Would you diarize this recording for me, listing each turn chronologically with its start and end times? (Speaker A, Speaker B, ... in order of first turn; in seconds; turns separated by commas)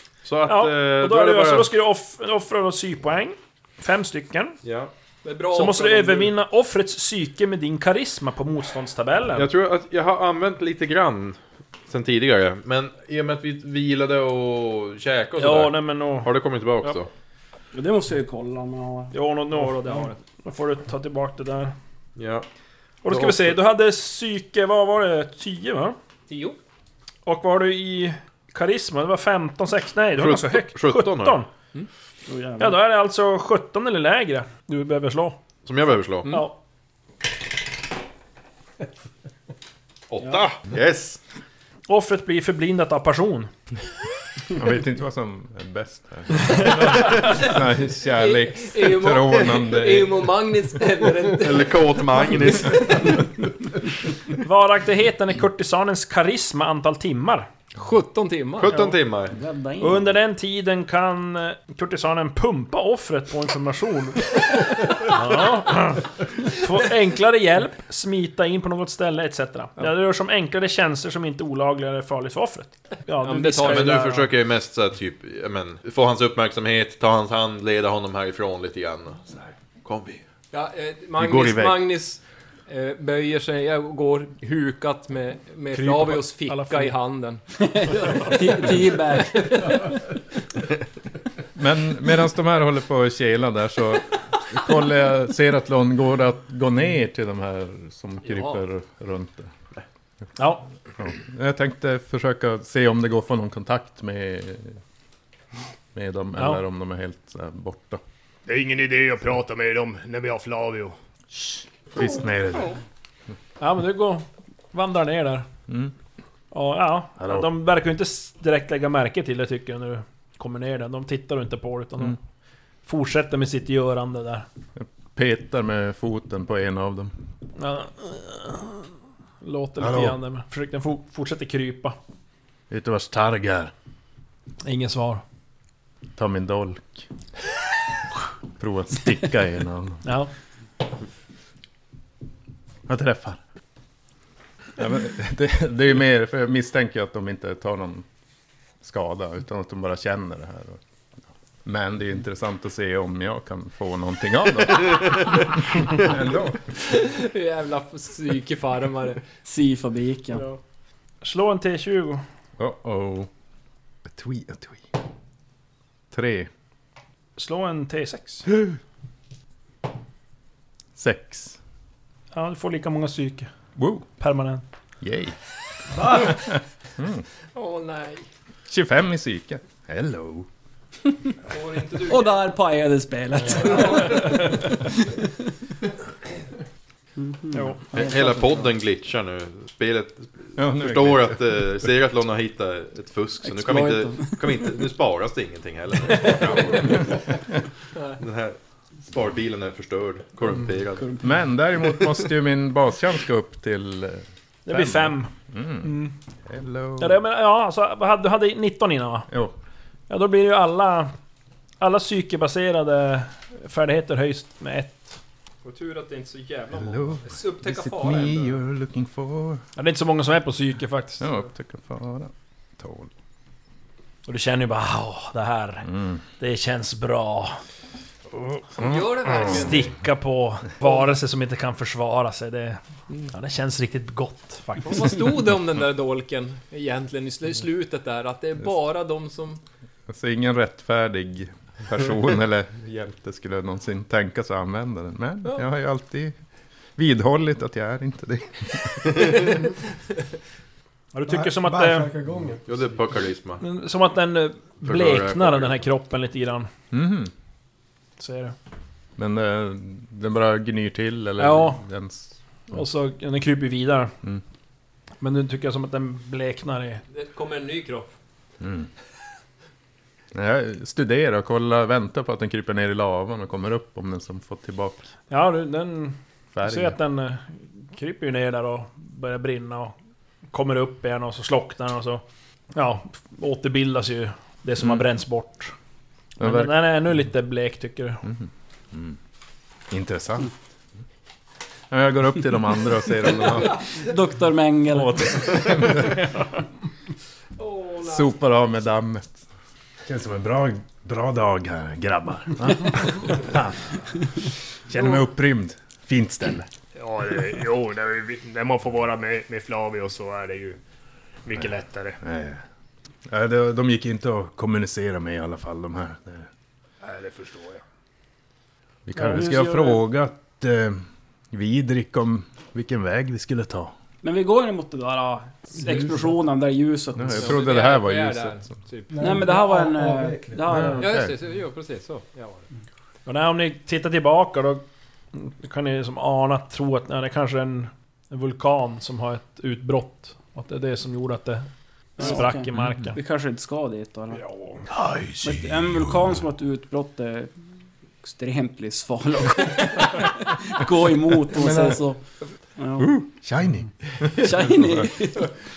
Speaker A: 0.2-1.7, Speaker B: 0.5-4.6, Speaker A: 4.6-4.9, Speaker C: 5.2-6.3, Speaker B: 5.5-9.5, Speaker A: 9.3-17.1, Speaker B: 15.4-16.3, Speaker D: 17.7-19.1, Speaker B: 19.1-21.7, Speaker A: 22.2-22.5, Speaker B: 23.0-26.0, Speaker A: 23.1-23.6, Speaker C: 26.3-26.6, Speaker B: 27.3-31.5, Speaker A: 30.2-31.4, Speaker D: 32.3-32.8, Speaker B: 32.6-35.4, Speaker A: 35.6-36.4, Speaker B: 36.3-36.6, Speaker A: 40.1-41.2, Speaker B: 41.9-43.5, Speaker E: 44.5-50.2, Speaker C: 47.0-47.5, Speaker C: 48.0-51.8, Speaker A: 51.4-53.4, Speaker B: 54.4-57.5, Speaker C: 57.8-58.9, Speaker A: 58.6-59.4, Speaker D: 59.3-60.1, Speaker B: 59.8-74.3, Speaker C: 73.2-74.1, Speaker A: 73.6-80.2, Speaker C: 80.5-89.7, Speaker A: 81.2-81.8, Speaker B: 85.7-86.9, Speaker D: 87.6-90.0, Speaker E: 91.5-99.5, Speaker C: 98.2-98.6, Speaker B: 100.4-100.7, Speaker E: 101.0-104.8, Speaker E: 105.9-108.0, Speaker F: 108.5-110.9, Speaker C: 108.5-110.9, Speaker E: 111.3-112.7, Speaker B: 113.6-115.5, Speaker E: 115.7-115.9, Speaker B: 116.5-122.2, Speaker E: 117.2-117.5, Speaker B: 122.8-124.5, Speaker E: 124.8-127.1, Speaker B: 127.6-128.9, Speaker B: 129.4-132.0, Speaker E: 129.8-130.2, Speaker E: 132.7-133.7, Speaker B: 134.6-135.2, Speaker E: 136.2-137.1, Speaker E: 138.6-140.0, Speaker B: 140.0-140.3, Speaker E: 142.9-143.4, Speaker E: 144.8-148.1, Speaker E: 148.8-150.8, Speaker E: 151.7-156.6, Speaker C: 156.8-159.2, Speaker D: 159.4-160.4, Speaker C: 160.3-160.6, Speaker B: 161.2-162.2, Speaker E: 162.6-163.3, Speaker E: 164.1-164.9, Speaker E: 166.1-166.5, Speaker B: 167.4-168.5, Speaker E: 171.0-171.6, Speaker B: 172.3-173.5, Speaker E: 173.8-174.1, Speaker B: 174.2-174.6, Speaker E: 175.0-175.4, Speaker E: 176.2-177.2, Speaker C: 177.6-178.3, Speaker E: 178.7-180.5, Speaker C: 181.5-182.4, Speaker D: 182.0-185.2, Speaker C: 183.5-184.2, Speaker D: 187.2-188.7, Speaker B: 187.5-187.8, Speaker A: 187.9-197.3, Speaker E: 190.6-191.4, Speaker D: 193.4-194.7, Speaker A: 198.2-201.2, Speaker D: 201.0-201.3, Speaker E: 201.2-207.2, Speaker D: 201.9-202.2, Speaker B: 204.7-206.1, Speaker B: 207.0-209.3, Speaker B: 210.1-211.1, Speaker B: 211.8-215.2, Speaker C: 215.6-218.6, Speaker E: 216.7-219.6, Speaker B: 219.8-221.3, Speaker E: 221.2-223.1, Speaker B: 224.3-227.6, Speaker E: 225.9-226.2, Speaker E: 228.3-229.8, Speaker C: 228.8-229.9, Speaker B: 229.4-235.2, Speaker C: 234.8-239.6, Speaker E: 240.1-246.4, Speaker E: 247.0-249.4, Speaker B: 251.1-252.1, Speaker G: 251.3-253.2, Speaker A: 252.7-253.6, Speaker B: 253.6-256.7, Speaker A: 254.8-255.8, Speaker E: 256.9-257.3, Speaker B: 258.2-258.6, Speaker E: 259.2-262.3, Speaker B: 261.4-261.8, Speaker B: 262.7-264.1, Speaker B: 265.2-267.0, Speaker C: 267.1-268.1, Speaker E: 268.6-268.9, Speaker E: 270.3-275.0, Speaker B: 275.3-279.9, Speaker E: 276.5-277.0, Speaker B: 280.5-282.2, Speaker B: 282.7-285.7, Speaker E: 284.8-285.1, Speaker E: 286.4-287.1, Speaker B: 286.4-288.3, Speaker E: 288.3-289.2, Speaker E: 289.9-290.5, Speaker E: 291.9-293.8, Speaker D: 293.4-295.9, Speaker E: 294.9-296.1, Speaker C: 297.6-298.3, Speaker E: 298.0-299.4, Speaker E: 300.1-303.9, Speaker E: 304.9-306.7, Speaker F: 307.0-310.8, Speaker C: 307.1-310.7, Speaker C: 311.5-312.1, Speaker F: 311.5-312.2, Speaker E: 312.2-312.6, Speaker E: 313.3-316.5, Speaker F: 317.0-317.8, Speaker C: 317.2-317.8, Speaker E: 319.1-323.9, Speaker D: 319.2-320.0, Speaker D: 324.2-327.6, Speaker E: 327.2-328.8, Speaker C: 327.4-329.4, Speaker G: 329.1-331.0, Speaker D: 329.1-331.2, Speaker E: 330.7-331.4, Speaker C: 331.0-332.7, Speaker B: 333.3-343.2, Speaker D: 342.2-344.4, Speaker E: 342.7-343.1, Speaker E: 344.9-345.7, Speaker D: 345.4-347.5, Speaker D: 348.2-352.2, Speaker D: 352.8-353.2, Speaker E: 353.0-355.1, Speaker D: 354.4-355.5